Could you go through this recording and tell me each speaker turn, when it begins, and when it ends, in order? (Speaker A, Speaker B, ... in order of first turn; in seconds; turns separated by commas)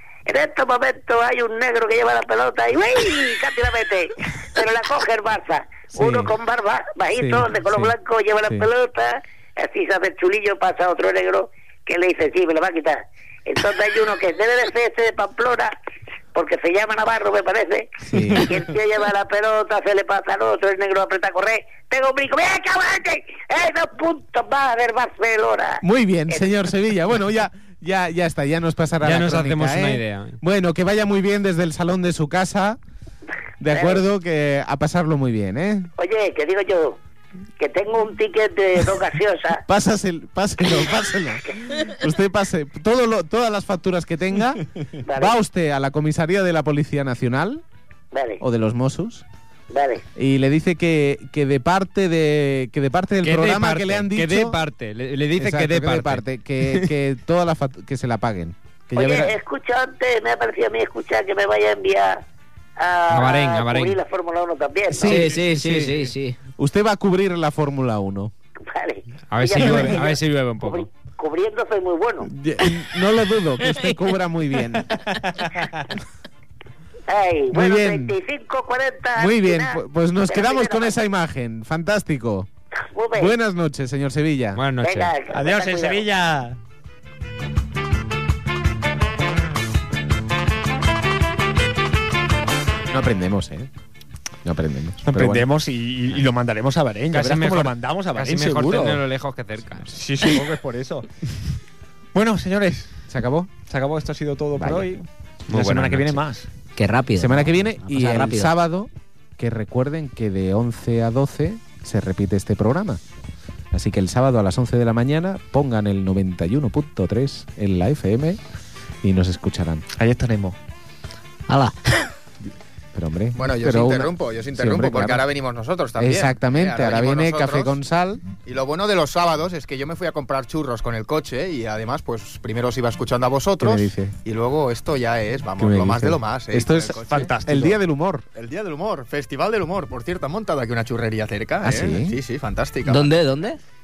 Speaker A: 0.2-15.7, Speaker B: 5.9-6.3, Speaker B: 7.2-7.9, Speaker A: 16.3-26.5, Speaker B: 18.1-18.6, Speaker B: 25.8-32.8, Speaker C: 29.0-30.4, Speaker B: 33.6-35.9, Speaker A: 33.7-34.0, Speaker A: 36.0-37.0, Speaker A: 37.6-39.6, Speaker B: 39.7-47.6, Speaker A: 45.0-45.4, Speaker A: 48.1-48.4, Speaker B: 48.4-49.2, Speaker A: 49.7-50.0, Speaker B: 50.1-54.6, Speaker C: 53.2-56.2, Speaker B: 55.4-59.4, Speaker A: 58.9-62.2, Speaker A: 62.8-65.3, Speaker C: 63.1-64.0, Speaker B: 64.9-68.3, Speaker D: 65.0-66.4, Speaker A: 68.7-72.3, Speaker C: 69.3-70.9, Speaker B: 69.7-69.9, Speaker B: 72.2-75.0, Speaker D: 73.6-74.0, Speaker A: 77.1-81.0, Speaker B: 77.5-78.1, Speaker B: 79.2-82.5, Speaker A: 82.9-83.3, Speaker B: 83.1-84.6, Speaker C: 84.5-85.1, Speaker A: 84.8-86.1, Speaker E: 85.3-86.6, Speaker B: 92.9-93.7, Speaker B: 94.4-95.5, Speaker E: 95.0-99.0, Speaker C: 97.1-99.9, Speaker E: 99.9-101.3, Speaker E: 102.1-102.9, Speaker B: 103.1-103.5, Speaker E: 103.6-106.5, Speaker B: 104.6-104.9, Speaker C: 105.5-106.2, Speaker D: 106.8-108.5, Speaker B: 107.2-113.0, Speaker B: 113.7-118.4, Speaker B: 119.0-119.8, Speaker E: 119.9-120.5, Speaker D: 121.5-122.1, Speaker B: 122.9-125.2, Speaker F: 123.3-127.8, Speaker B: 126.0-128.2, Speaker F: 128.4-137.6, Speaker B: 133.6-134.2, Speaker B: 135.6-138.2, Speaker E: 137.1-137.7, Speaker F: 138.3-143.2, Speaker B: 141.6-142.2, Speaker D: 142.8-143.6